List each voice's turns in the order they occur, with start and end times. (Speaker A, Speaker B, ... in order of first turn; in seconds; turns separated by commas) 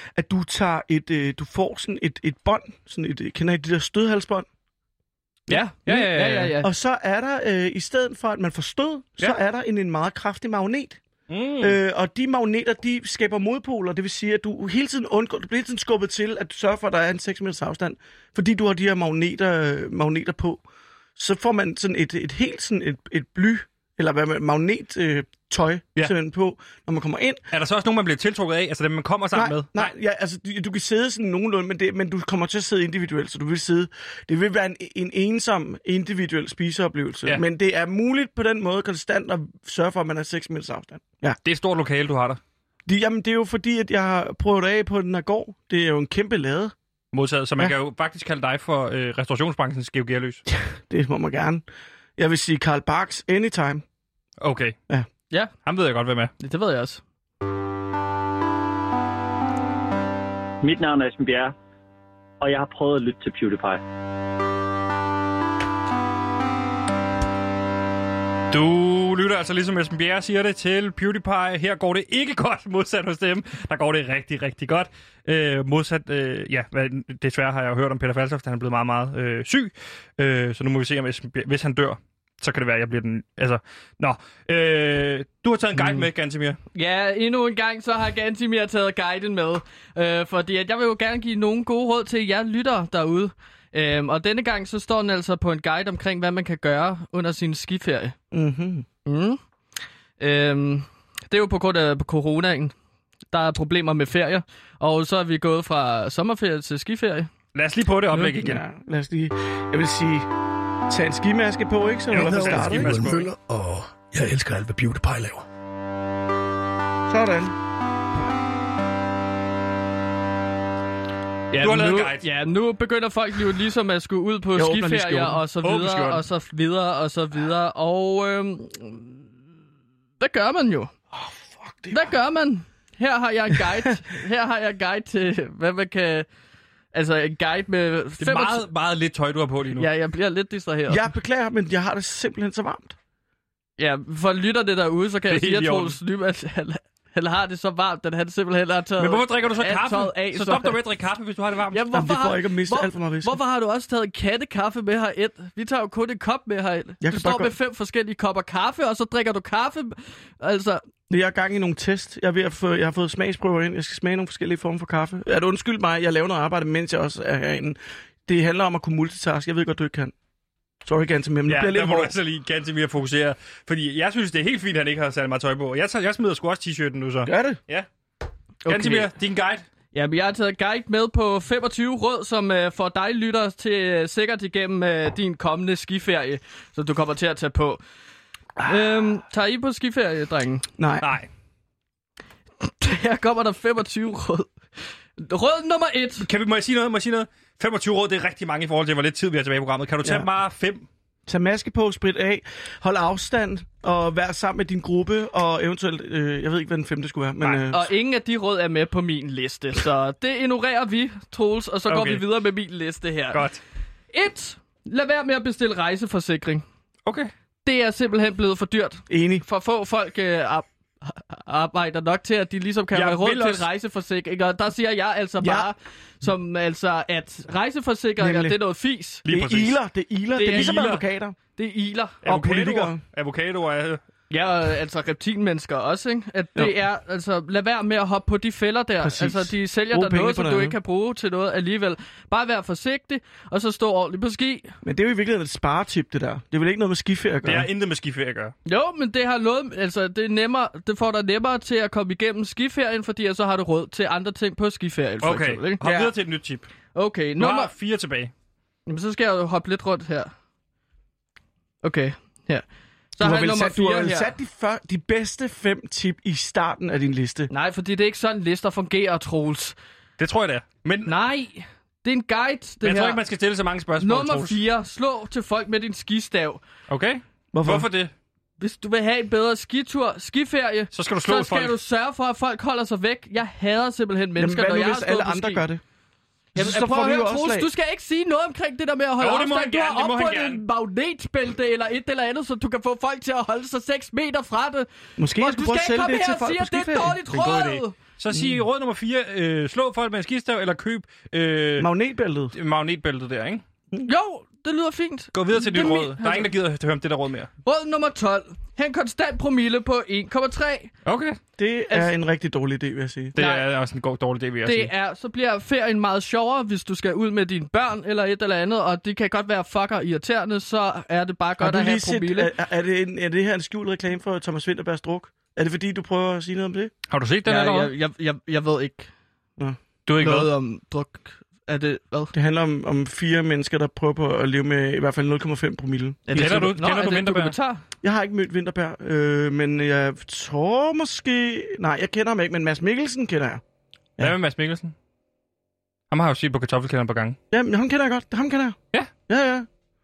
Speaker A: 0.1-4.5, Speaker B: 5.5-6.5, Speaker C: 5.5-6.7, Speaker A: 6.6-11.0, Speaker B: 11.3-11.8, Speaker A: 11.6-20.6, Speaker A: 21.1-27.4, Speaker B: 27.5-29.9, Speaker A: 29.3-41.4, Speaker B: 41.4-42.4, Speaker A: 42.9-46.7, Speaker B: 47.1-50.4, Speaker A: 50.5-51.6, Speaker A: 52.2-53.8, Speaker B: 54.4-54.8, Speaker B: 55.6-56.3, Speaker C: 56.4-57.0, Speaker D: 60.6-61.5, Speaker D: 62.4-63.8, Speaker B: 68.5-86.6, Speaker C: 85.8-86.0, Speaker C: 86.7-98.1, Speaker A: 98.3-98.9, Speaker C: 99.0-99.4, Speaker C: 100.2-102.7, Speaker C: 103.3-107.3, Speaker B: 107.5-108.6, Speaker A: 108.1-110.3, Speaker A: 110.9-113.1, Speaker B: 112.1-113.3, Speaker E: 112.1-115.4, Speaker A: 117.1-117.5, Speaker C: 121.5-129.3, Speaker B: 121.6-122.3, Speaker A: 124.5-125.4, Speaker B: 125.6-126.2, Speaker C: 130.2-130.9, Speaker A: 131.1-132.1, Speaker C: 131.9-136.3, Speaker C: 136.9-138.6, Speaker B: 138.2-139.9, Speaker C: 139.8-141.1, Speaker A: 140.9-142.9, Speaker C: 143.8-150.8, Speaker B: 145.3-146.0, Speaker B: 149.0-151.9, Speaker C: 151.7-160.8, Speaker A: 151.9-153.4, Speaker A: 157.0-157.5, Speaker A: 161.1-170.1, Speaker A: 170.8-172.1, Speaker B: 171.5-177.9, Speaker A: 177.2-177.6, Speaker C: 178.6-179.1, Speaker B: 178.7-179.6, Speaker C: 179.9-187.8, Speaker C: 188.6-190.7, Speaker A: 190.8-191.1, Speaker B: 191.0-191.3, Speaker C: 192.6-194.5, Speaker C: 195.2-196.3, Speaker B: 196.2-200.9, Speaker A: 201.3-207.9, Speaker B: 207.4-207.7, Speaker C: 207.7-213.4, Speaker B: 211.9-212.2, Speaker B: 213.3-213.6, Speaker C: 214.1-216.6, Speaker B: 217.1-217.3, Speaker C: 217.6-229.2, Speaker A: 219.1-219.4, Speaker B: 222.9-223.7, Speaker A: 225.4-225.7, Speaker A: 228.2-228.6, Speaker B: 229.3-229.8, Speaker A: 229.3-231.4, Speaker C: 230.4-231.0, Speaker B: 230.4-231.0, Speaker C: 231.6-232.2, Speaker B: 232.2-234.0, Speaker A: 232.2-233.0, Speaker C: 234.3-244.7, Speaker A: 239.0-240.8, Speaker A: 244.8-247.7, Speaker B: 247.4-248.5, Speaker C: 248.7-255.8, Speaker B: 255.2-256.6, Speaker A: 255.8-256.1, Speaker C: 256.9-257.7, Speaker B: 257.4-258.3, Speaker C: 258.9-260.3, Speaker C: 261.8-262.6, Speaker C: 263.1-264.3, Speaker A: 263.2-267.5, Speaker C: 267.5-269.7, Speaker B: 270.2-271.1, Speaker C: 271.1-273.2, Speaker B: 272.8-274.6, Speaker C: 274.0-276.6, Speaker B: 276.9-278.1, Speaker A: 277.5-277.9, Speaker C: 278.6-285.6, Speaker B: 280.9-281.8, Speaker A: 284.4-285.8, Speaker A: 286.6-287.7, Speaker C: 286.6-297.9, Speaker B: 289.2-290.6, Speaker A: 295.2-297.2, Speaker B: 297.3-301.9, Speaker A: 298.3-298.6, Speaker A: 301.8-302.5, Speaker B: 302.5-303.6, Speaker C: 304.0-306.5, Speaker B: 305.3-307.5, Speaker C: 307.6-310.9, Speaker B: 311.1-311.4, Speaker A: 311.6-313.3, Speaker B: 313.3-314.9, Speaker C: 313.4-313.7, Speaker C: 314.6-322.5, Speaker A: 321.6-326.9, Speaker B: 327.1-327.9, Speaker C: 327.4-329.1, Speaker B: 330.1-330.5, Speaker C: 330.2-332.3, Speaker A: 332.3-336.2, Speaker C: 336.3-337.8, Speaker B: 336.3-337.6, Speaker A: 338.0-343.6, Speaker B: 344.2-344.9, Speaker B: 346.1-347.4, Speaker A: 347.5-349.7